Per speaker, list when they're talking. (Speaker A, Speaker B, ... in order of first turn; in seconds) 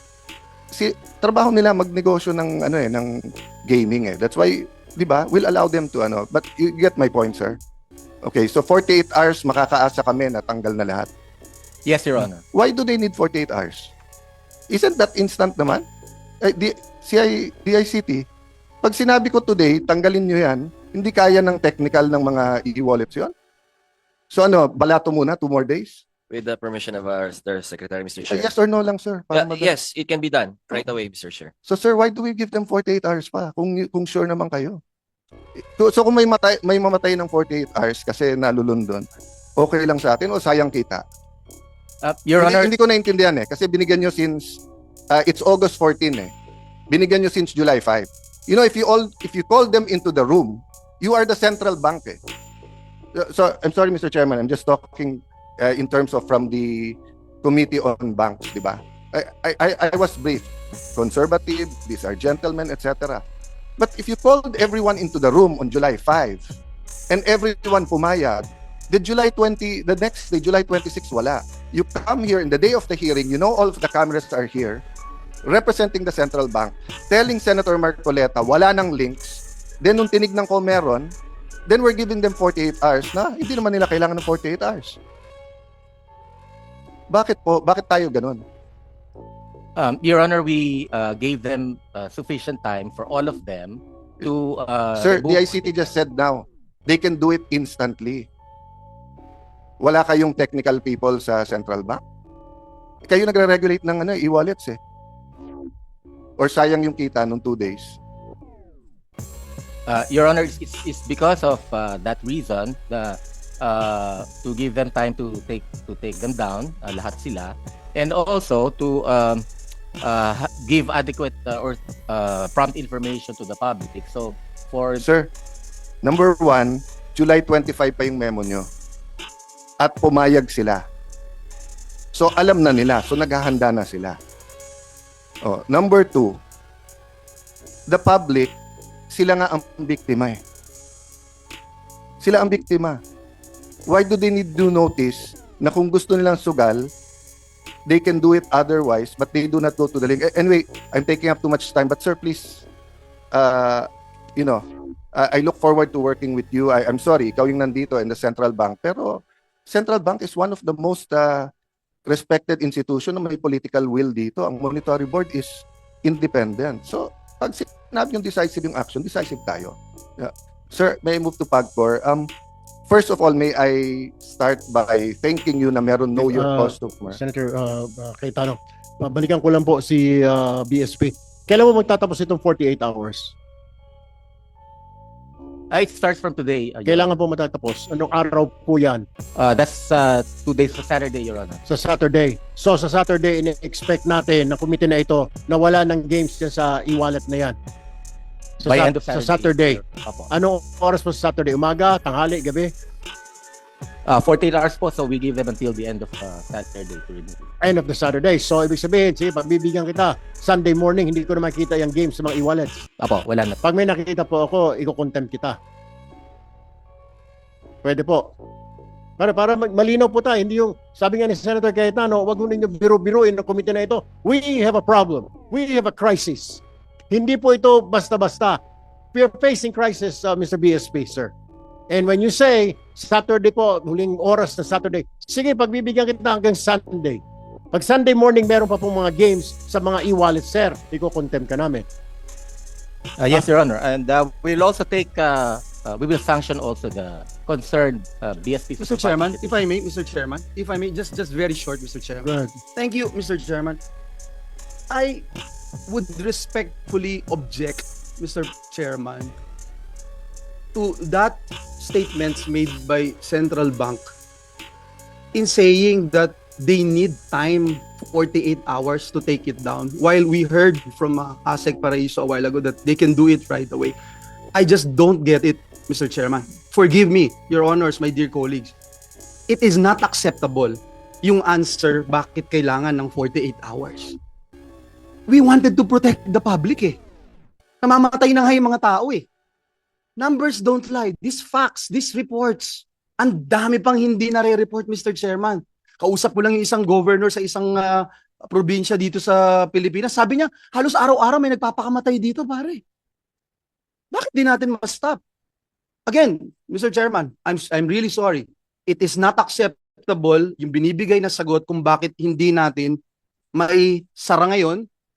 Speaker A: 0.7-3.1, 3.7-7.6, 8.2-11.1, 12.5-13.9, 14.7-15.8, 16.4-18.2, 18.8-23.3, 24.3-26.0, 28.3-29.8, 31.6-34.8, 35.8-39.1, 39.6-41.0, 42.4-44.6, 45.1-46.3, 46.9-52.2, 53.1-63.2, 63.8-66.4, 67.1-74.8, 75.5-81.1, 81.7-85.0, 87.1-88.4, 95.0-98.3, 99.8-102.0, 103.0-104.8, 106.4-108.0, 125.0-125.3, 126.0-128.7, 129.8-130.8, 132.1-134.2, 135.4-136.4, 137.9-138.5, 139.1-140.4, 142.2-143.0, 143.9-146.9, 147.9-152.6, 153.3-154.6, 155.2-161.5, 162.1-172.3, 172.9-177.2
Speaker B: 11.8-12.4, 42.0-42.7, 89.8-95.6, 109.9-119.5, 120.0-125.0, 185.7-187.1, 189.4-191.6, 198.7-200.3, 204.1-207.5, 213.0-213.6, 243.2-249.6
Speaker C: 26.3-28.5, 29.3-31.5
Speaker D: 176.2-183.3, 186.8-189.1, 191.7-197.6, 198.6-202.7, 207.6-212.8, 213.6-215.6, 217.8-218.3, 219.2-228.6, 229.1-231.3, 231.9-241.8, 252.2-252.6
Speaker E: 248.8-253.8, 254.9-255.2, 255.9-259.3, 260.7-264.1, 265.3-273.9, 274.5-278.7, 279.5-284.2, 285.3-287.0, 287.8-289.2, 290.2-302.8, 304.1-305.2, 306.1-313.0, 313.5-314.9